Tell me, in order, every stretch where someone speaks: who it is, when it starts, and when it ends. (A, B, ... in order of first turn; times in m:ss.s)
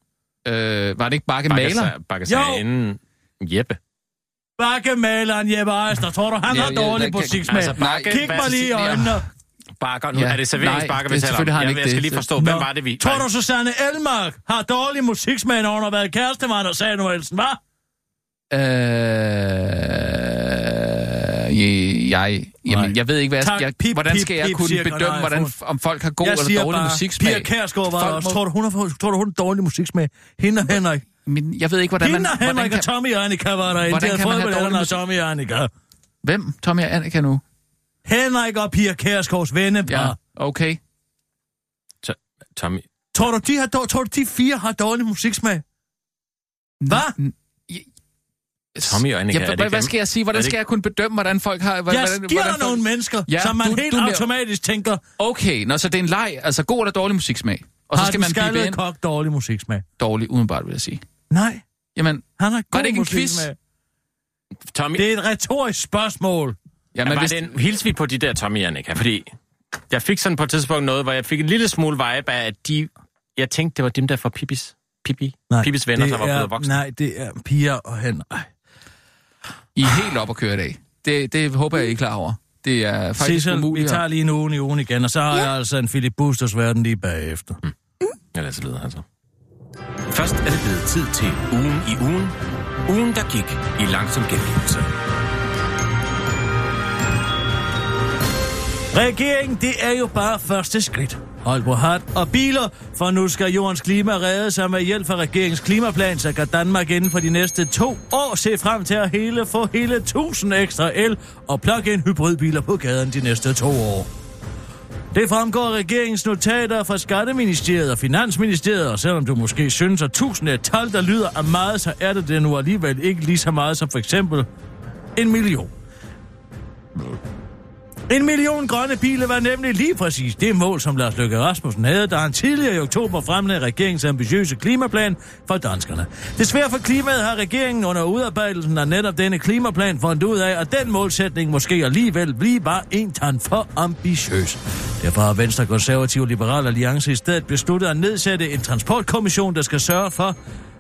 0:00.4-0:01.9 A
0:01.5-0:03.8 B
0:02.3-0:02.6 C
0:04.6-0:09.2 C
0:06.5-0:09.2 A
0:07.4-0:09.0 B
0:09.8-0:13.3 B
0:10.1-0:12.3 A
0:12.4-0:17.6 C
0:18.5-0:28.4 A
0:22.7-0:25.5 C
0:26.2-0:31.0 C
0:31.3-0:32.9 A
0:32.0-0:35.7 C
0:33.8-0:35.0 A
0:36.2-0:37.4 A
0:38.1-0:40.2 C
0:39.9-0:40.8 A
0:42.0-0:42.8 B
0:43.1-0:45.6 C
0:46.8-0:47.9 A
0:46.9-0:47.2 C
0:48.8-0:54.3 A
0:48.8-0:50.6 B
0:51.9-0:55.0 C
0:55.2-0:58.8 A
0:57.9-0:59.8 C
1:00.0-1:01.0 A
1:01.3-1:01.6 C
1:02.0-1:03.5 A
1:02.4-1:03.6 C
1:04.7-1:05.0 B
1:05.0-1:06.6 C
1:06.9-1:07.6 A
1:07.0-1:09.3 B
1:09.9-1:16.8 B
1:15.5-1:18.5 C
1:19.8-1:24.0 A
1:23.2-1:27.6 C
1:28.3-1:29.0 B
1:30.1-1:32.3 B
1:32.9-1:34.9 B
1:38.9-1:54.1 C
1:55.1-2:04.5 C
2:05.2-2:05.7 C
2:08.1-2:30.4 C